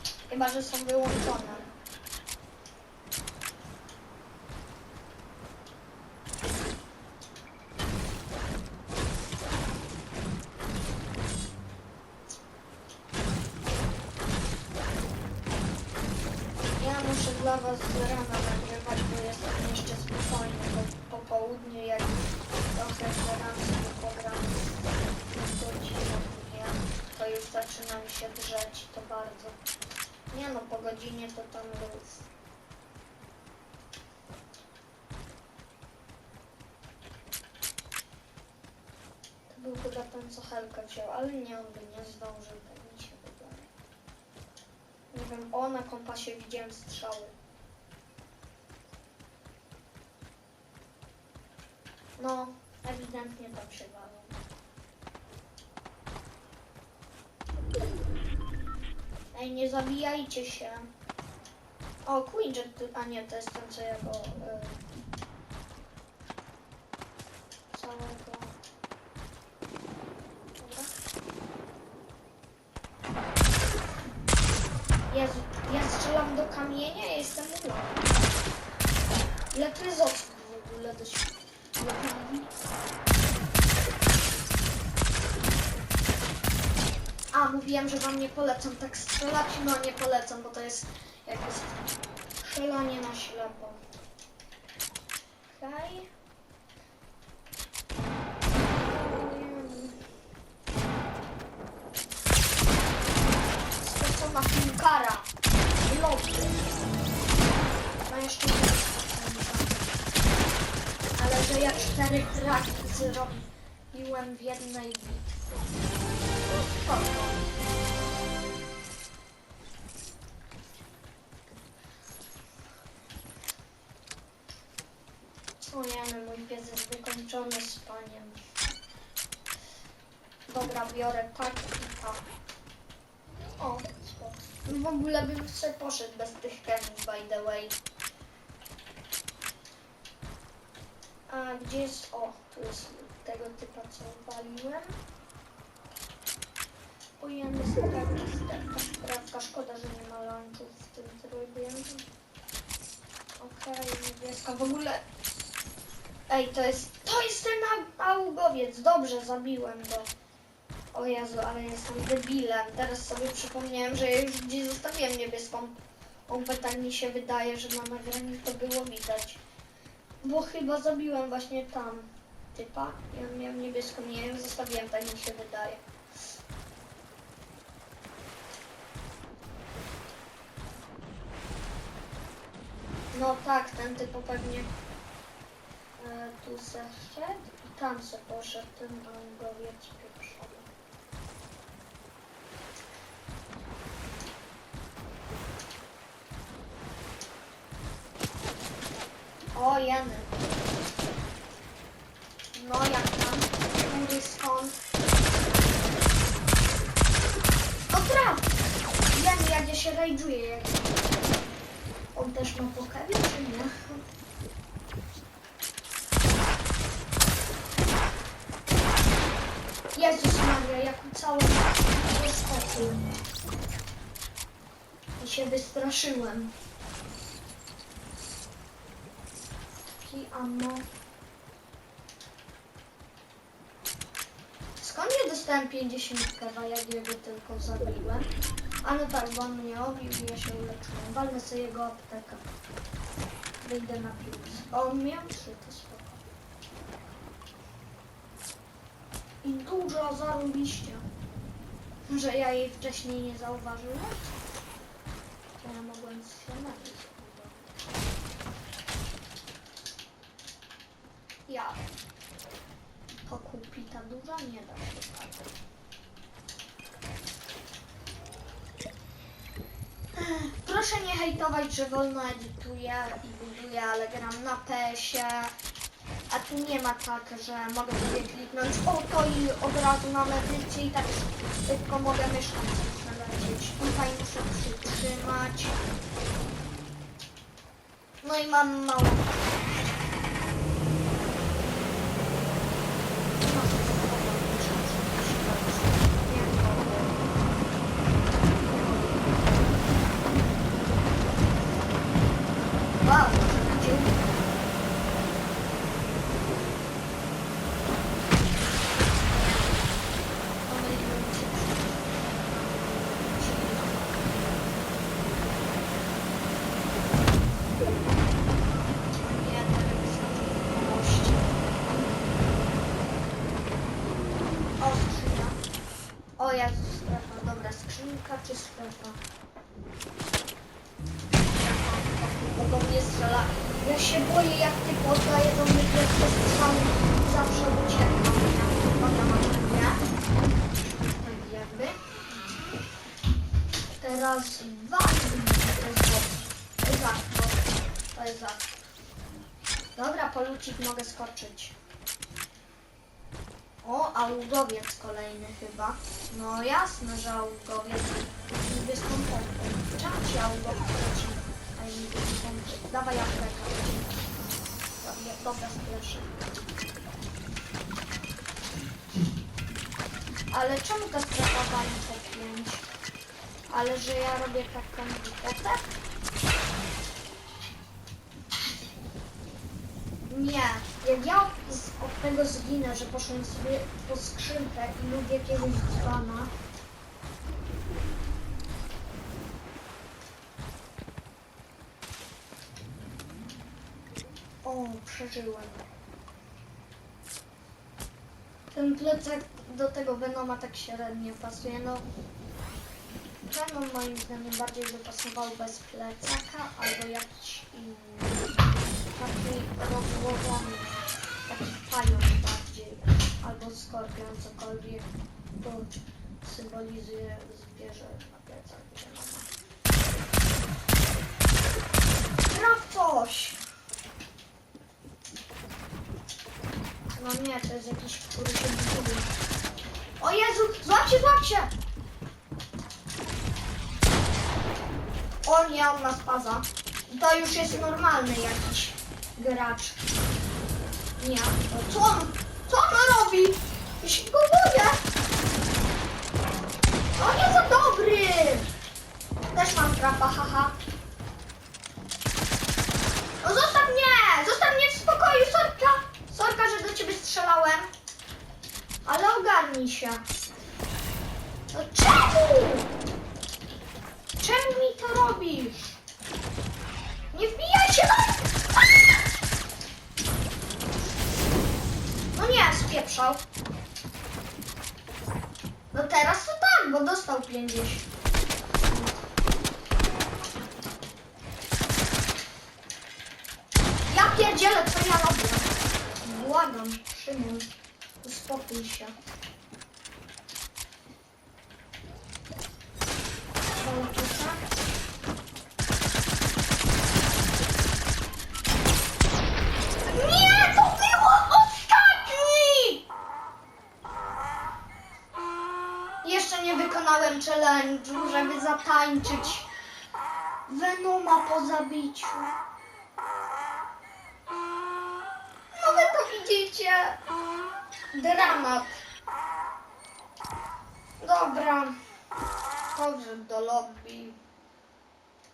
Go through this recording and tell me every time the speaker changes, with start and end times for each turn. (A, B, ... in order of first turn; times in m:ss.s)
0:00.3-0:01.7 A
0:16.8-0:29.6 A
0:30.3-0:32.3 A
0:39.5-0:43.7 A
0:45.1-0:47.3 A
0:52.2-0:54.4 A
0:59.3-1:00.9 A
1:02.0-1:04.8 A
1:07.7-1:08.6 A
1:10.6-1:10.9 A
1:15.1-1:18.1 A
1:19.5-1:22.5 A
1:27.3-1:31.8 A
1:32.4-1:33.8 A
1:35.5-1:36.1 A
1:38.8-1:40.0 A
1:43.8-1:45.3 A
1:45.8-1:46.7 A
1:48.0-1:49.9 A
1:51.2-1:55.4 A
1:56.5-1:57.5 A
2:05.6-2:08.4 A
2:10.5-2:12.2 A
2:13.6-2:17.8 A
2:21.3-2:24.9 A
2:27.2-2:32.0 A
2:33.4-2:35.0 A
2:36.3-2:40.1 A
2:40.9-2:49.4 A
2:50.2-2:55.8 A
3:03.1-3:04.7 A
3:06.0-3:10.7 A
3:19.5-3:20.4 A
3:22.5-3:24.8 A
3:27.9-3:28.6 A
3:29.1-3:31.1 A
3:32.1-3:34.0 A
3:39.9-3:43.1 A
3:45.2-3:46.5 A
3:50.0-3:50.9 A
3:54.8-3:58.3 A
3:58.8-4:02.5 A
4:03.6-4:06.2 A
4:09.4-4:11.0 A
4:12.1-4:14.3 A
4:15.6-4:17.8 A
4:21.5-4:21.8 A
4:23.2-4:25.5 A
4:30.1-4:35.5 A
4:36.3-4:45.8 A
4:48.2-4:50.0 A
4:53.4-4:57.3 A
4:58.6-4:59.6 A
5:03.0-5:04.4 A
5:10.6-5:14.6 A
5:19.2-5:22.1 A
5:24.8-5:25.6 A
5:26.4-5:29.2 A
5:31.5-5:40.0 A
5:41.0-5:42.0 A
5:44.0-5:48.7 A
5:50.0-5:51.8 A
5:53.8-6:04.2 A
6:05.0-6:06.4 A
6:10.5-6:12.9 A
6:13.7-6:15.9 A
6:20.3-6:26.5 A
6:34.6-6:35.8 A
6:38.7-6:42.1 A
6:43.5-6:48.4 A
6:49.1-6:55.1 A
6:55.6-6:59.5 A
7:02.5-7:03.6 A
7:07.1-7:09.3 A
7:10.2-7:11.7 A
7:15.4-7:20.0 A
7:21.2-7:25.0 A
7:27.2-7:28.7 A
7:29.5-7:30.8 A
7:33.4-7:37.9 A
7:39.0-7:40.2 A
7:41.7-7:42.9 A
7:44.4-7:46.0 A
7:47.3-7:49.1 A
7:52.3-7:53.4 A
7:55.9-7:58.0 A
8:04.1-8:07.7 A
8:08.2-8:09.1 A
8:13.8-8:14.6 A
8:20.0-8:23.0 A
8:26.2-8:29.7 A
8:30.7-8:32.5 A
8:35.7-8:37.2 A
8:38.1-8:39.0 A
8:41.2-8:42.0 A
8:42.9-8:44.4 A